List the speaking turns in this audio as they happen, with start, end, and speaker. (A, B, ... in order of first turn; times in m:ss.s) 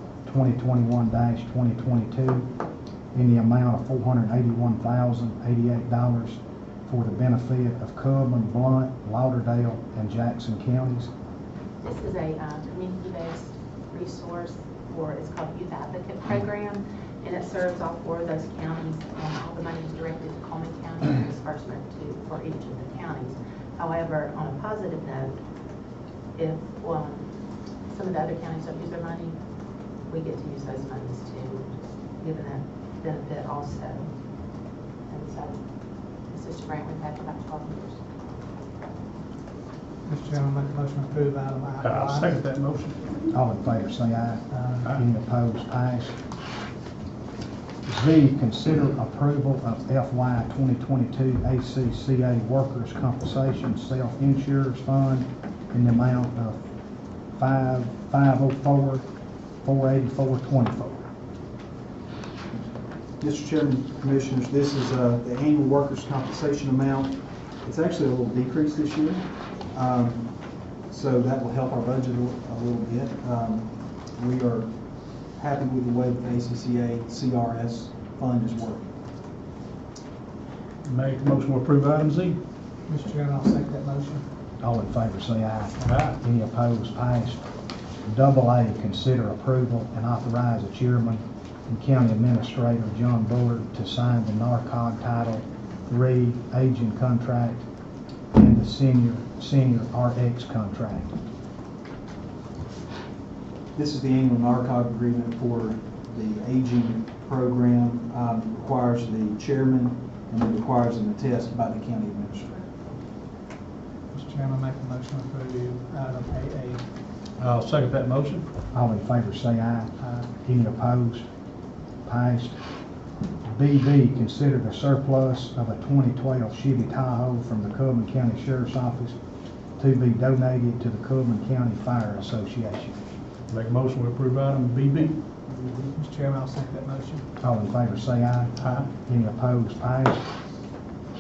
0:00.3-0:02.5 A
0:03.1-0:11.1 A
0:11.8-0:25.4 B
0:26.4-0:27.3 B
0:27.9-0:29.4 B
0:30.1-0:34.1 B
0:35.1-0:35.6 B
0:36.3-0:38.0 B
0:40.0-0:42.3 C
0:41.8-0:43.3 D
0:43.3-0:46.2 A
0:44.5-0:44.8 C
0:47.9-0:56.6 A
0:57.3-0:59.0 A
0:59.6-1:01.0 A
1:03.2-1:10.3 E
1:10.9-1:14.7 E
1:15.4-1:18.9 E
1:20.8-1:22.4 D
1:22.9-1:24.2 C
1:24.6-1:27.4 A
1:25.8-1:26.2 D
1:28.0-1:37.6 A
1:38.3-1:41.2 A
1:43.8-1:52.7 E
1:54.1-1:56.8 C
1:57.4-1:58.5 D
1:58.7-2:01.3 A
2:00.0-2:00.2 C
2:02.0-2:02.6 A
2:03.4-2:09.2 A
2:09.8-2:13.0 A
2:13.5-2:15.2 D
2:16.0-2:17.3 C
2:17.4-2:20.2 A